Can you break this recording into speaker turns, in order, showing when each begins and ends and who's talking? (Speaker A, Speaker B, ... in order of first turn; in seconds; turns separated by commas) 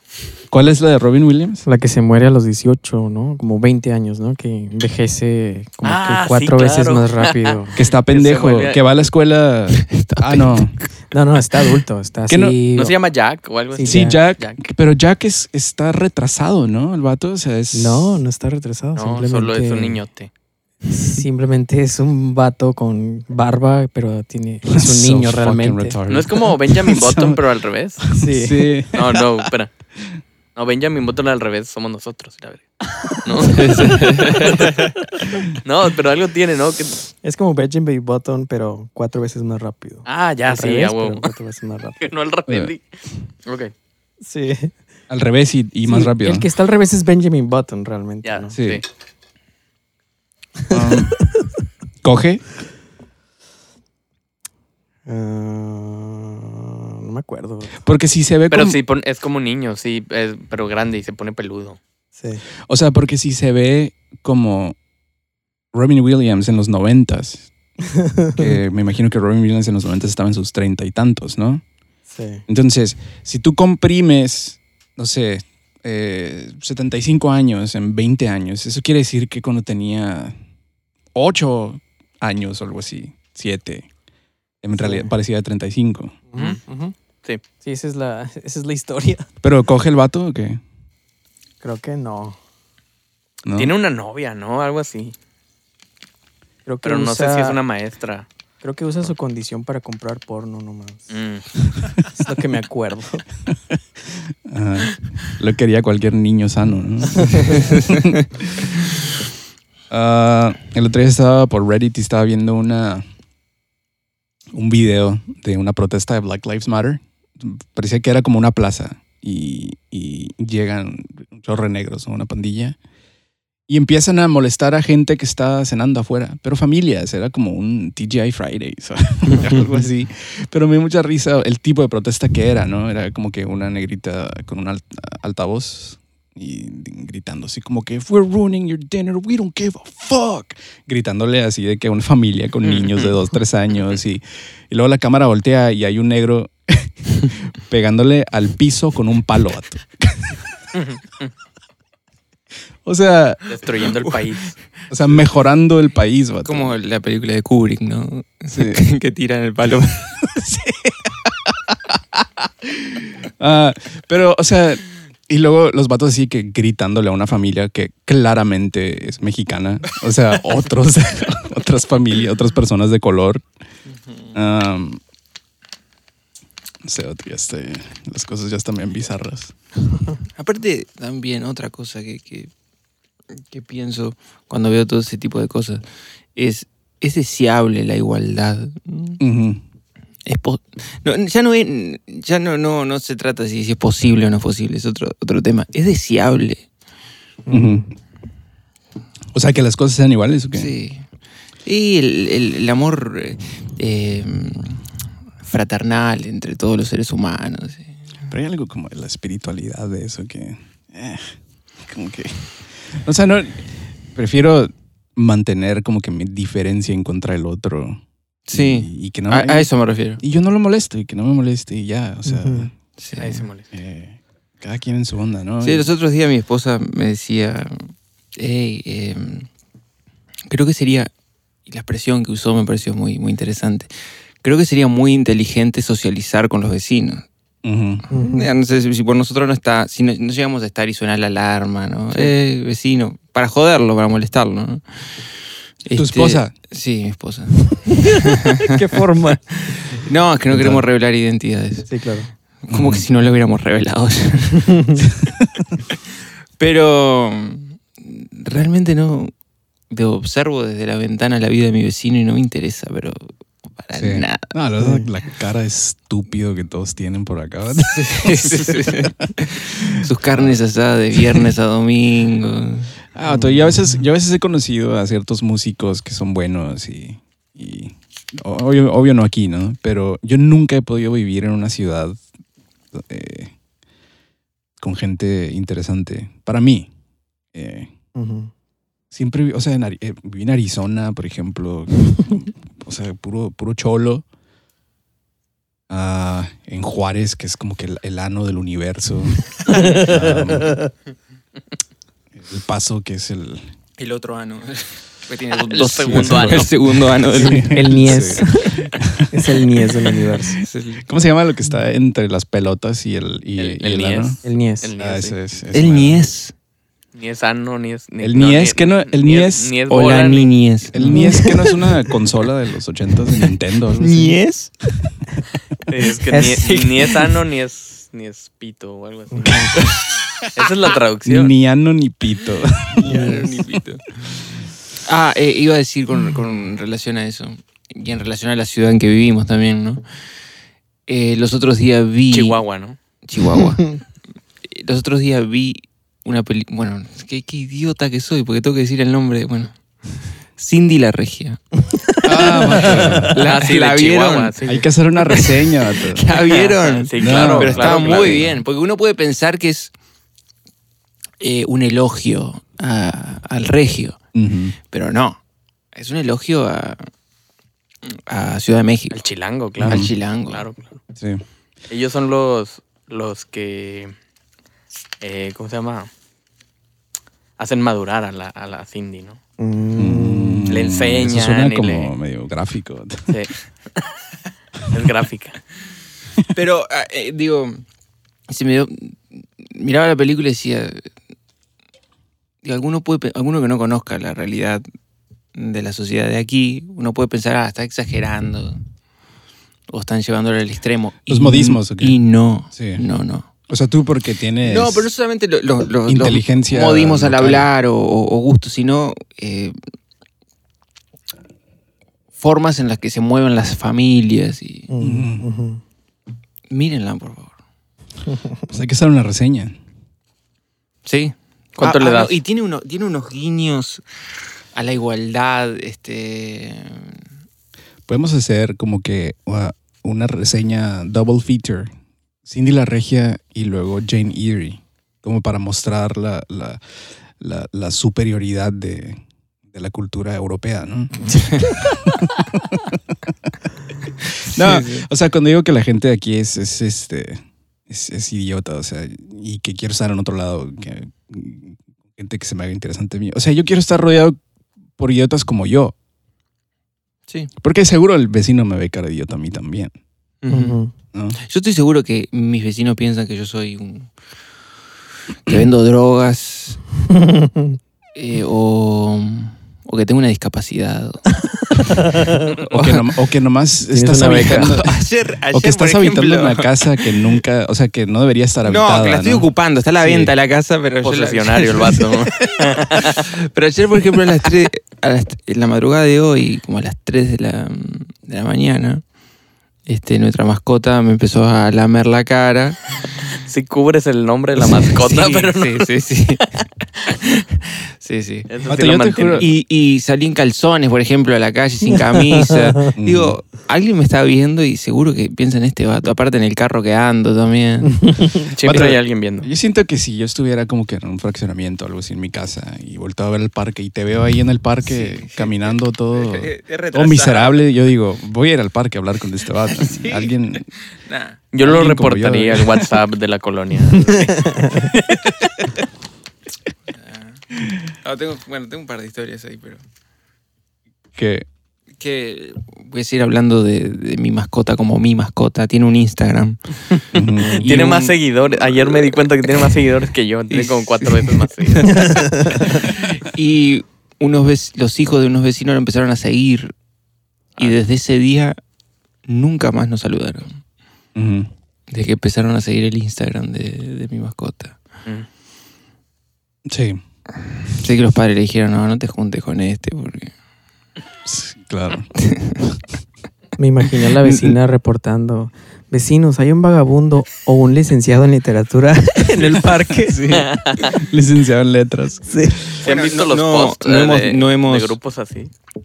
Speaker A: 0.5-1.6, Speaker B: 1.6-7.8, Speaker C: 5.8-8.8, Speaker A: 7.8-10.7, Speaker D: 9.7-10.8, Speaker B: 11.1-12.9, Speaker A: 12.3-12.6, Speaker C: 12.8-14.6, Speaker B: 13.7-14.2, Speaker A: 13.8-18.2, Speaker B: 17.7-20.0, Speaker C: 19.0-20.3, Speaker B: 20.9-26.0, Speaker A: 24.7-27.4, Speaker C: 26.1-28.1, Speaker B: 28.1-28.7, Speaker A: 28.1-29.5, Speaker C: 28.9-29.7, Speaker C: 30.6-34.9, Speaker B: 33.1-33.8, Speaker D: 33.4-34.9, Speaker C: 35.6-37.0, Speaker B: 37.2-42.0, Speaker C: 40.1-41.3, Speaker C: 42.0-43.7, Speaker B: 44.2-44.8, Speaker A: 45.1-46.5, Speaker B: 45.9-48.6, Speaker C: 48.2-48.8, Speaker A: 48.5-48.8, Speaker A: 50.7-51.2, Speaker B: 50.9-51.4, Speaker A: 52.0-52.5, Speaker B: 55.1-57.8, Speaker A: 57.8-58.8, Speaker C: 58.5-61.8, Speaker B: 62.2-62.4, Speaker A: 62.7-64.8, Speaker A: 65.7-67.5, Speaker B: 67.9-68.5, Speaker A: 68.3-71.6, Speaker B: 72.1-72.4, Speaker A: 72.5-80.3, Speaker A: 81.2-83.9, Speaker A: 84.6-86.2, Speaker B: 84.7-85.1, Speaker B: 86.3-86.9, Speaker B: 87.6-89.3, Speaker A: 89.4-90.6, Speaker B: 91.6-92.4, Speaker A: 93.5-93.7, Speaker C: 93.6-95.1, Speaker B: 96.7-97.6, Speaker C: 96.8-98.3, Speaker B: 98.6-101.1, Speaker C: 101.1-101.5, Speaker B: 102.1-103.2, Speaker A: 104.3-108.7, Speaker A: 109.9-113.0, Speaker A: 114.5-122.8, Speaker A: 123.7-150.4, Speaker C: 142.7-143.1, Speaker C: 150.7-151.3, Speaker A: 152.8-153.4, Speaker C: 153.5-154.6, Speaker A: 154.9-156.7, Speaker D: 156.4-160.2, Speaker A: 158.5-158.8, Speaker A: 160.2-173.4, Speaker D: 173.9-174.4, Speaker A: 174.3-175.0, Speaker A: 176.8-179.5, Speaker D: 180.4-182.5, Speaker D: 183.3-185.8, Speaker D: 186.3-189.2, Speaker A: 189.2-189.6, Speaker D: 190.3-196.7, Speaker B: 197.5-197.8, Speaker A: 197.5-197.9, Speaker A: 199.3-200.7, Speaker D: 200.6-201.1, Speaker D: 201.7-204.8, Speaker D: 205.4-208.0, Speaker A: 208.3-219.7, Speaker D: 218.5-220.2, Speaker A: 220.2-222.7, Speaker B: 222.3-222.7, Speaker D: 223.0-223.5, Speaker C: 223.2-223.7, Speaker A: 223.7-225.9, Speaker D: 225.6-229.5, Speaker D: 230.5-231.1, Speaker D: 231.7-233.9, Speaker D: 234.4-237.3, Speaker A: 237.6-238.1, Speaker B: 238.1-238.5, Speaker D: 238.1-245.2, Speaker D: 245.8-248.7, Speaker A: 246.0-246.5, Speaker B: 247.9-249.4, Speaker D: 249.3-251.9, Speaker A: 250.5-250.8, Speaker B: 251.9-252.3, Speaker D: 252.7-255.1, Speaker A: 252.7-253.1, Speaker B: 254.7-255.0, Speaker D: 256.6-259.3, Speaker D: 259.9-264.5, Speaker A: 263.9-270.6, Speaker B: 264.8-265.1, Speaker D: 267.8-272.9, Speaker A: 271.2-271.4, Speaker A: 273.1-282.2, Speaker B: 273.3-273.8, Speaker A: 282.9-283.5, Speaker A: 284.8-286.9, Speaker A: 287.5-287.9, Speaker B: 288.1-288.5, Speaker A: 289.1-294.2, Speaker A: 295.9-300.8, Speaker B: 299.8-300.1, Speaker A: 302.4-303.7, Speaker D: 304.0-308.3, Speaker C: 305.6-306.7, Speaker A: 306.1-309.4, Speaker B: 307.4-310.6, Speaker D: 310.6-311.1, Speaker A: 311.0-314.4, Speaker C: 313.6-315.4, Speaker B: 314.4-314.9, Speaker A: 315.0-316.2, Speaker D: 315.7-316.5, Speaker C: 317.1-320.5, Speaker A: 318.2-319.8, Speaker D: 319.9-321.7, Speaker A: 320.9-324.3, Speaker B: 321.0-321.5, Speaker D: 324.0-324.7, Speaker C: 325.9-331.5, Speaker D: 326.3-327.3, Speaker B: 329.3-329.8, Speaker A: 331.2-333.5, Speaker D: 332.9-334.4, Speaker B: 333.1-333.5, Speaker D: 335.0-340.0, Speaker D: 341.1-342.6, Speaker C: 342.3-343.0, Speaker D: 343.2-344.0, Speaker D: 344.6-349.8, Speaker D: 350.6-351.6, Speaker D: 352.1-354.6, Speaker A: 352.2-353.4, Speaker B: 352.4-353.2, Speaker C: 353.3-354.9, Speaker A: 354.6-356.3, Speaker D: 355.2-359.9, Speaker C: 356.3-358.5, Speaker A: 357.2-358.6, Speaker D: 361.4-364.2, Speaker A: 364.3-364.8, Speaker D: 364.9-365.4, Speaker D: 365.9-367.1, Speaker D: 368.1-369.2, Speaker C: 369.1-371.0, Speaker A: 369.8-370.1, Speaker D: 369.8-370.6, Speaker A: 371.2-371.4, Speaker C: 371.9-374.1, Speaker C: 375.2-376.1, Speaker C: 377.6-379.4, Speaker B: 379.6-380.7, Speaker A: 380.0-383.4, Speaker C: 380.7-382.1, Speaker C: 383.3-384.2, Speaker C: 384.9-385.6, Speaker D: 386.5-387.8, Speaker D: 388.5-391.0, Speaker D: 392.6-394.8, Speaker D: 395.5-398.8, Speaker D: 399.9-403.5, Speaker A: 401.3-402.2, Speaker A: 402.7-403.0, Speaker A: 403.7-405.1, Speaker D: 404.6-409.8, Speaker A: 406.1-407.7, Speaker D: 412.4-414.9, Speaker B: 414.9-415.8, Speaker A: 415.0-415.5, Speaker D: 416.7-417.6, Speaker A: 418.7-419.8, Speaker D: 421.1-424.0, Speaker C: 421.8-422.4, Speaker D: 424.7-427.2, Speaker A: 428.1-431.9, Speaker A: 432.5-436.8, Speaker A: 437.4-443.3, Speaker D: 441.4-441.7, Speaker A: 444.4-454.4, Speaker D: 444.5-445.1, Speaker A: 455.0-455.9, Speaker A: 457.6-459.9, Speaker D: 460.4-460.8, Speaker B: 460.5-460.9, Speaker D: 461.4-464.1, Speaker D: 465.5-466.8, Speaker B: 467.2-467.6, Speaker D: 468.1-471.9, Speaker B: 471.9-472.2, Speaker A: 472.6-480.3, Speaker D: 472.7-473.0, Speaker B: 473.9-474.8, Speaker D: 474.6-477.4, Speaker D: 478.6-489.0, Speaker C: 481.0-483.3, Speaker D: 489.9-492.8, Speaker C: 493.4-495.9, Speaker D: 494.6-496.5, Speaker D: 497.2-498.5, Speaker C: 498.5-499.5, Speaker A: 498.7-499.5, Speaker D: 499.4-508.2, Speaker A: 503.0-503.4, Speaker C: 508.5-509.5, Speaker A: 508.6-520.7, Speaker D: 514.8-517.6, Speaker D: 519.7-521.4, Speaker C: 521.5-525.3, Speaker A: 521.6-522.9, Speaker D: 526.9-527.5, Speaker D: 528.0-529.8, Speaker A: 531.1-531.5, Speaker D: 532.0-539.6, Speaker A: 537.1-537.8, Speaker C: 537.6-542.9, Speaker D: 540.5-546.7, Speaker B: 542.0-542.7, Speaker D: 547.6-548.6, Speaker D: 549.3-550.6, Speaker A: 551.1-551.5, Speaker D: 551.9-554.8, Speaker A: 556.7-557.0, Speaker D: 557.7-560.3, Speaker A: 561.2-562.1, Speaker D: 562.2-562.6, Speaker B: 563.6-570.2, Speaker D: 564.2-564.5, Speaker A: 570.1-572.8, Speaker C: 570.3-571.0, Speaker B: 572.3-572.6, Speaker D: 572.8-575.0, Speaker C: 572.8-575.5